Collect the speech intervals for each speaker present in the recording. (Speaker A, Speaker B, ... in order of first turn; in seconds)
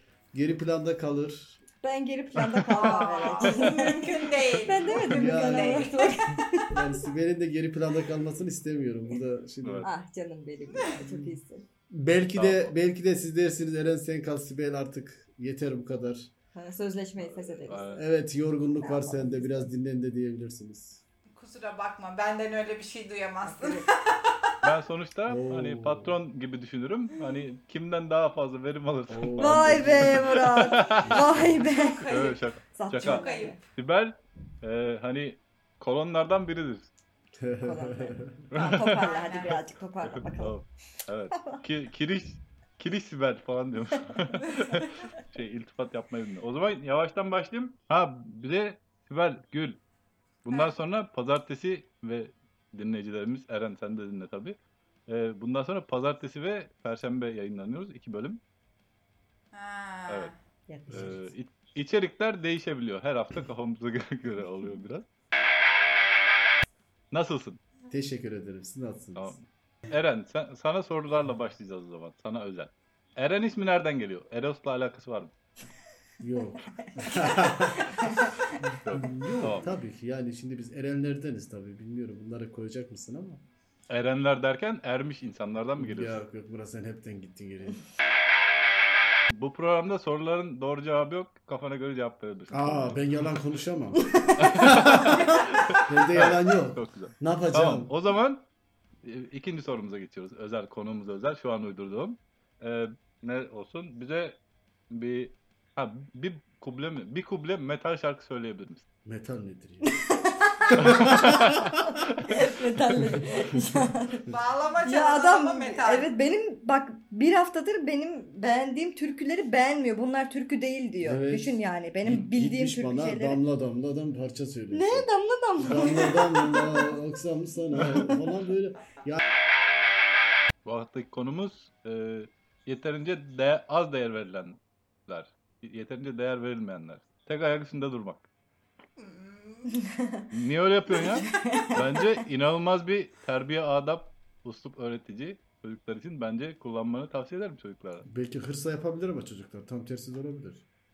Speaker A: 0.3-1.6, 5.0-5.9, 6.7-9.9, 11.0-11.3, 11.9-16.3, 17.9-21.0, 25.3-26.2, 29.1-31.5, 37.4-38.4, 67.9-69.3, 76.2-78.2, 78.9-83.4, 85.8-87.8, 92.5-97.9, 109.0-109.9, 110.7-111.6, 121.0-125.0, 125.6-129.2, 148.0-150.6
Speaker B: 1.8-4.1, 4.6-7.0, 9.8-11.7, 16.5-18.0, 18.8-19.7, 23.4-23.9, 29.4-33.6, 37.6-40.6, 60.7-61.2, 76.8-78.6, 94.0-94.6, 109.9-123.4, 124.7-127.0, 140.9-142.1
Speaker C: 2.5-3.8, 9.6-9.9, 12.3-12.7, 17.2-18.0, 24.6-31.2, 32.1-36.9, 38.5-39.0, 40.0-49.8, 50.4-58.4, 60.9-65.1, 67.1-67.6, 69.2-75.3, 78.8-79.7, 83.9-86.2, 89.3-93.3, 94.3-98.4, 99.0-104.4, 104.9-108.8, 110.8-112.3, 130.6-138.2, 140.3-148.1
Speaker D: 2.7-6.1, 10.7-11.0, 21.3-24.4, 31.5-32.4, 32.9-33.6, 38.9-39.6, 59.5-60.3, 114.3-116.1, 139.0-139.7